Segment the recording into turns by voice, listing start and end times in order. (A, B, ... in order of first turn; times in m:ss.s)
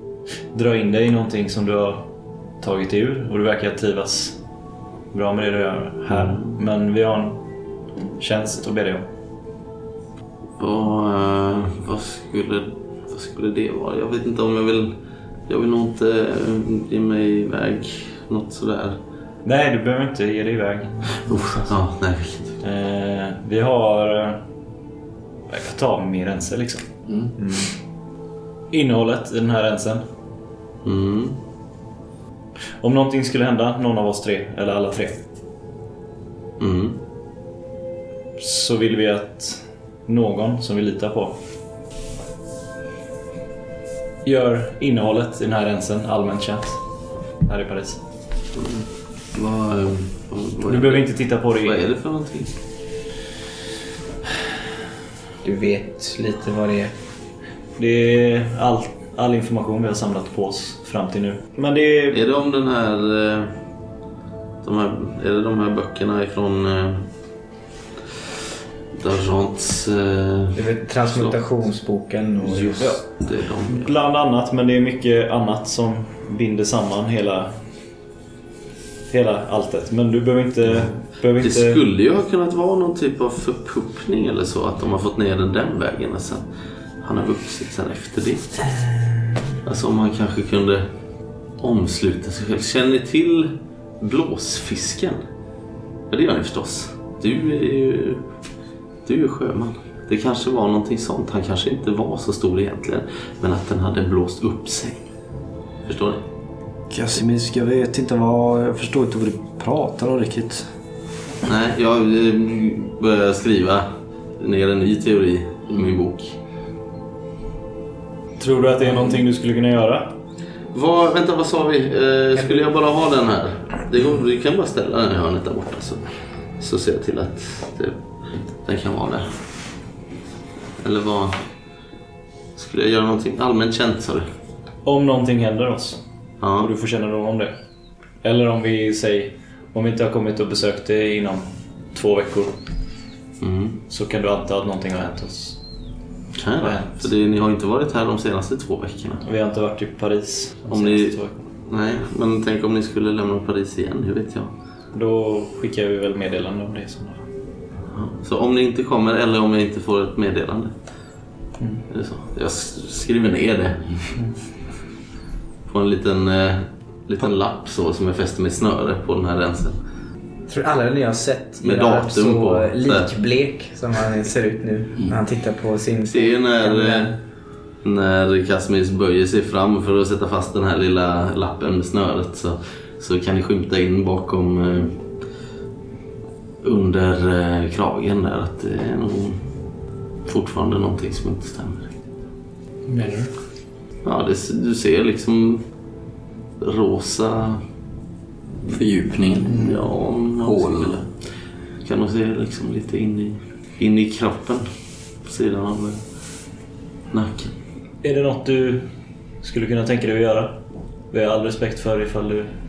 0:00.5-0:04.4 A
0:05.1-0:07.4 A
0:06.1-0:06.6 B
0:08.2-0:09.1 A
0:10.6-0:15.0 B
0:15.5-0:19.0 B
0:19.4-0:21.7 A
0:21.2-0:22.6 B
0:22.6-0:24.4 A
0:25.5-0:26.9 A
0:27.1-0:27.3 C
0:27.4-0:27.7 D
0:28.7-0:30.0 A
0:30.8-0:31.4 B
0:32.8-0:35.2 A
0:36.6-0:37.0 B
0:38.4-0:41.4 A
0:44.2-0:46.8 A
0:47.4-0:48.0 A
0:49.3-0:52.5 B
0:50.6-0:51.8 A
0:55.4-0:56.9 D
0:57.8-1:02.2 A
1:02.1-1:03.6 B
1:04.6-1:07.0 B
1:08.9-1:11.4 B
1:10.6-1:13.0 D
1:12.4-1:13.9 B
1:13.6-1:17.6 A
1:19.1-1:21.8 A
1:21.4-1:26.4 B
1:27.0-1:28.6 B
1:29.6-1:30.9 B
1:31.6-1:35.2 B
1:36.1-1:38.2 B
1:39.0-1:45.1 B
1:45.9-1:46.2 B
1:46.9-1:50.6 E
1:51.4-1:53.9 B
1:54.4-1:56.4 B
1:58.4-2:00.2 A
2:00.7-2:06.0 B
2:06.6-2:08.0 B
2:08.6-2:09.4 B
2:10.8-2:11.4 B
2:12.6-2:14.3 B
2:14.8-2:16.0 A
2:16.4-2:16.7 B
2:16.5-2:17.6 A
2:18.2-2:22.5 A
2:23.4-2:23.8 B
2:23.9-2:25.6 A
2:26.4-2:29.2 B
2:26.6-2:27.1 A
2:29.2-2:31.4 A
2:30.7-2:34.5 B
2:34.9-2:37.2 A
2:37.9-2:40.7 B
2:41.9-2:44.1 B
2:45.7-2:49.8 B
2:50.5-2:57.1 D
2:51.6-2:53.1 B
2:56.1-2:57.1 B
2:57.8-3:05.0 B
3:06.6-3:09.4 B
3:10.2-3:11.9 B
3:12.9-3:13.3 A
3:14.0-3:15.6 B
3:16.6-3:17.6 B
3:18.7-3:19.8 C
3:19.4-3:21.2 B
3:20.4-3:21.0 C
3:21.8-3:24.6 B
3:25.2-3:26.0 B
3:27.1-3:27.5 B
3:28.0-3:28.9 A
3:29.4-3:32.5 A